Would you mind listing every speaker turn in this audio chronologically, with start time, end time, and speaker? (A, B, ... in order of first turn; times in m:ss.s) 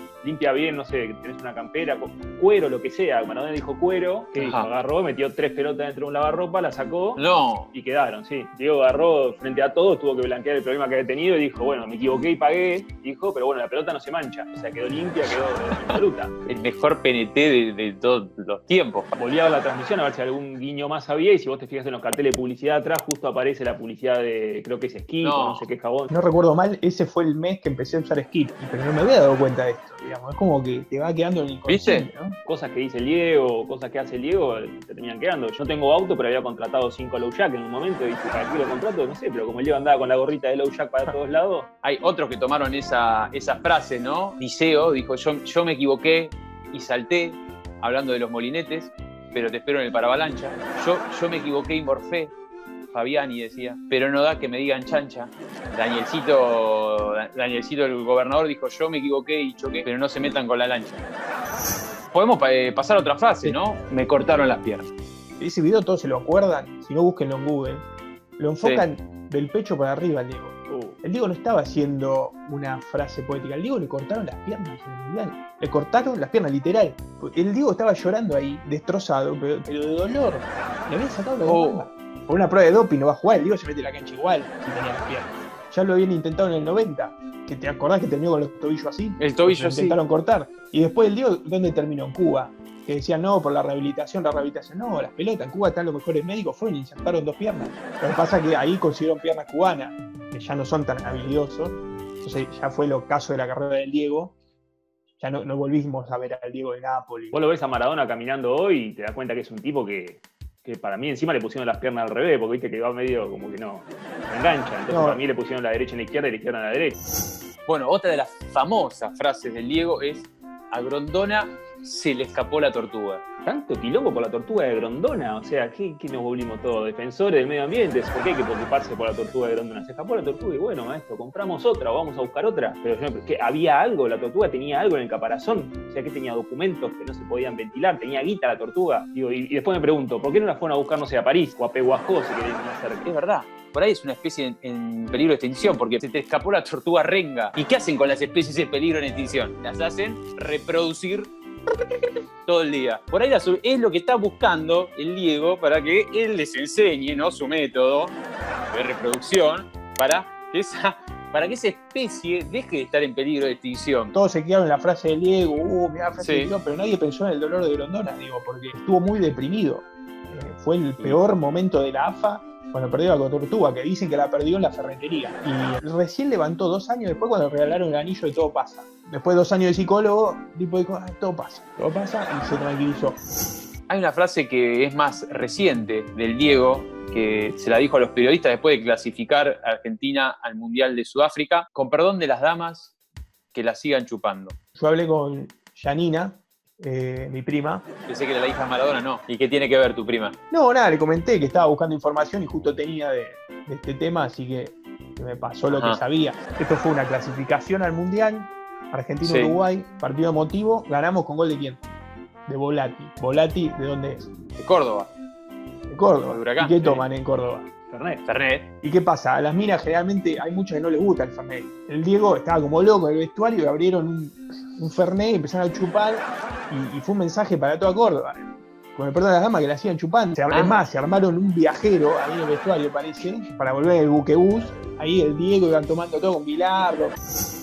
0:00.2-0:07.2 A
0:04.3-0:04.7 B
0:07.2-0:07.7 B
0:07.7-0:16.4 A
0:16.4-0:19.1 B
0:19.1-0:26.1 A
0:25.2-0:25.7 B
0:26.1-0:32.4 C
0:31.7-0:32.1 B
0:32.4-0:41.7 A
0:41.8-0:52.3 B
0:52.9-1:01.0 B
1:02.1-1:04.9 B
1:05.4-1:07.9 C
1:08.4-1:44.4 C
1:10.7-1:11.0 A
1:21.4-1:21.9 B
1:29.2-1:30.0 B
1:45.2-1:47.4 C
1:47.3-1:57.0 A
1:54.9-1:55.2 C
1:57.6-2:03.2 B
2:03.4-2:23.1 A
2:23.0-2:31.3 B
2:32.4-2:38.1 B
2:38.7-2:44.1 B
2:44.1-3:03.2 C
2:46.2-2:46.5 B
3:03.9-3:12.9 B
3:13.5-3:14.5 B
3:14.8-3:17.8 C
3:18.1-3:20.4 B
3:20.5-3:31.8 C
3:25.7-3:26.0 B
3:29.2-3:29.6 B
3:32.5-3:34.2 C
3:34.6-3:35.1 B
3:35.9-3:37.7 C
3:36.3-3:37.0 B
3:37.9-3:38.2 A
3:38.2-3:38.7 B
3:38.8-3:48.4 C
3:48.9-3:57.1 C
3:50.5-3:50.8 B